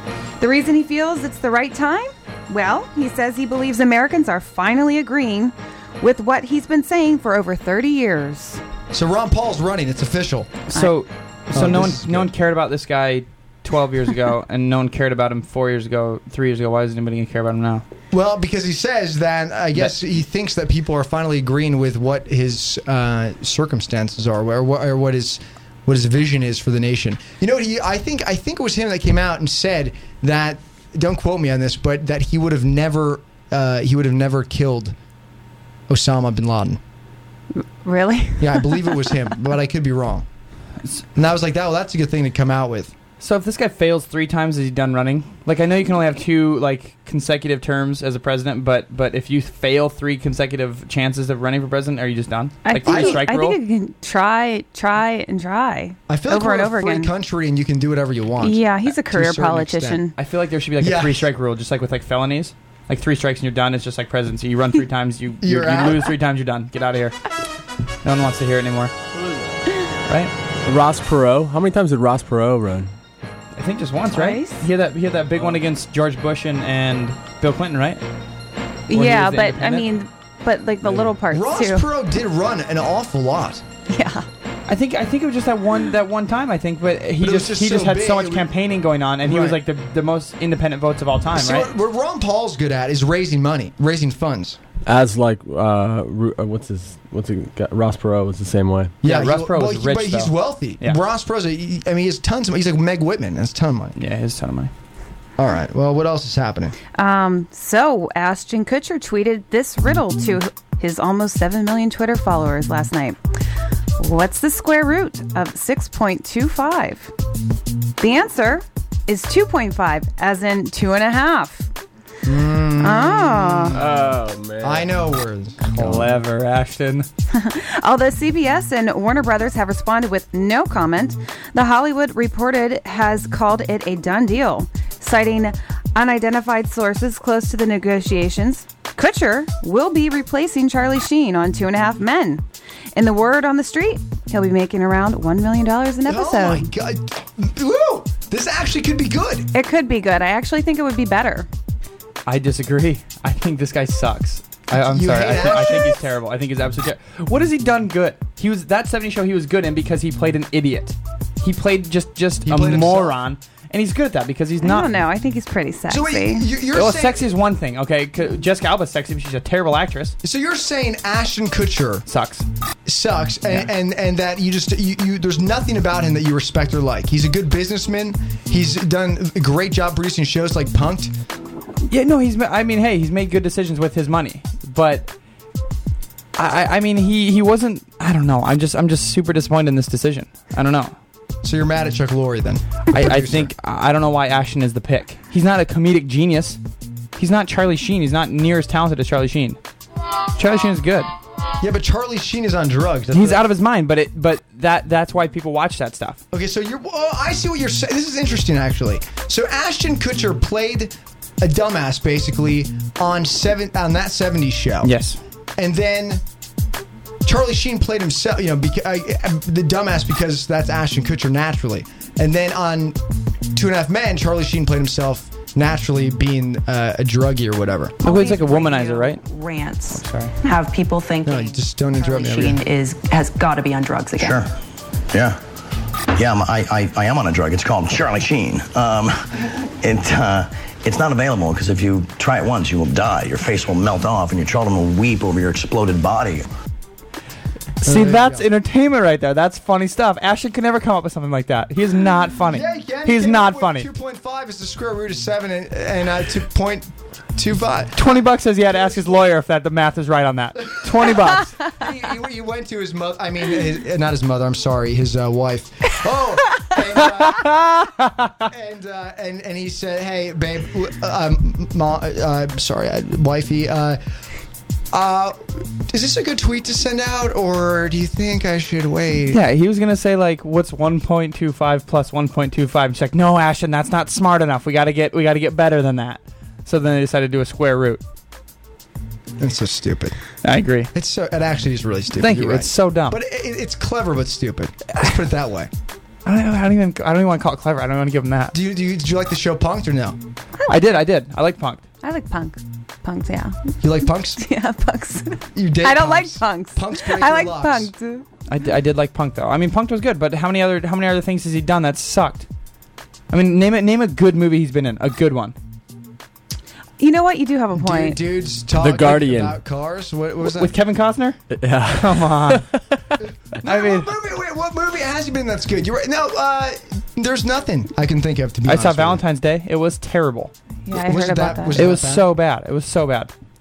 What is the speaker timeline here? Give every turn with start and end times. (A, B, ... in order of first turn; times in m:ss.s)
0:00.4-0:08.6 A
0:08.9-0:10.6 B
0:10.7-0:17.8 C
0:11.5-0:12.3 B
0:18.1-0:34.9 B
0:35.9-0:36.8 B
0:37.6-0:39.1 A
0:38.4-0:40.2 B
0:41.2-0:42.9 B
0:43.2-0:53.6 C
0:52.6-0:57.1 A
0:52.8-0:53.2 B
0:56.1-1:00.0 B
0:58.4-1:00.1 A
1:00.2-1:07.2 C
1:00.8-1:01.3 B
1:05.4-1:06.1 B
1:08.0-1:08.9 C
1:09.1-1:09.5 D
1:10.6-1:12.9 D
1:13.6-1:18.0 C
1:14.1-1:14.6 A
1:18.9-1:21.8 A
1:18.9-1:19.9 C
1:21.3-1:23.6 B
1:23.9-1:24.2 A
1:24.7-1:31.7 C
1:27.2-1:28.5 B
1:29.2-1:29.6 B
1:31.3-1:34.6 B
1:34.8-1:39.0 D
1:39.0-1:44.0 B
1:39.0-1:41.0 C
1:44.0-1:44.7 C
1:45.4-1:46.8 B
1:46.9-1:53.2 A
1:54.0-1:57.1 A
1:58.0-2:01.7 A
2:02.2-2:03.9 B
2:02.8-2:03.7 A
2:03.7-2:04.9 D
2:04.6-2:06.0 B
2:05.8-2:07.1 C
2:05.8-2:06.0 D
2:07.3-2:22.4 A
2:23.0-2:26.7 A
2:26.1-2:29.5 B
2:29.5-2:31.5 A
2:32.2-2:44.9 C
2:34.7-2:36.0 B
2:42.4-2:43.2 B
2:44.6-2:46.4 A
2:45.9-2:47.3 B
2:46.7-2:50.2 C
2:50.2-2:52.0 B
2:52.1-2:52.4 C
2:52.9-3:01.1 B
3:01.9-3:05.1 C
3:06.4-3:10.9 C
3:11.4-3:13.5 B
3:12.9-3:16.6 C
3:17.2-3:19.6 C
3:20.4-3:21.1 C
3:21.6-3:23.4 B
3:23.1-3:26.2 C
3:26.3-3:34.9 B
3:34.8-3:35.2 C
3:35.6-3:36.2 B
3:37.2-3:43.0 B
3:43.5-3:48.0 B
3:48.0-3:54.4 E
3:48.0-3:49.2 C
3:49.9-3:50.3 C
3:51.2-3:52.6 B
3:54.2-3:54.5 F
3:55.1-3:55.4 F
3:56.1-4:06.5 F
4:07.8-4:13.9 C
4:07.8-4:08.4 B
4:12.5-4:19.2 B
4:18.0-4:21.8 C
4:20.8-4:21.2 B
4:21.7-4:27.6 B
4:27.4-4:28.3 C
4:28.5-4:34.0 B
4:34.9-4:39.4 B
4:39.3-4:48.0 C
4:49.4-4:50.1 B
4:50.4-4:50.9 C
4:50.9-4:55.7 B
4:52.2-4:53.2 C
4:56.2-4:58.6 C
4:58.5-5:00.2 B
5:00.7-5:01.8 C
5:02.0-5:03.6 A
5:03.8-5:04.4 B
5:04.4-5:08.2 A
5:05.5-5:07.9 B
5:08.5-5:12.4 C
5:13.3-5:15.5 C
5:17.0-5:18.2 A
5:17.7-5:20.7 B
5:18.8-5:19.6 D
5:20.4-5:21.4 C
5:21.5-5:22.8 D
5:21.9-5:22.6 C
5:23.6-5:29.2 B
5:23.6-5:24.1 C
5:28.6-5:30.5 C
5:30.8-5:31.8 A
5:30.9-5:32.3 B
5:31.7-5:33.3 C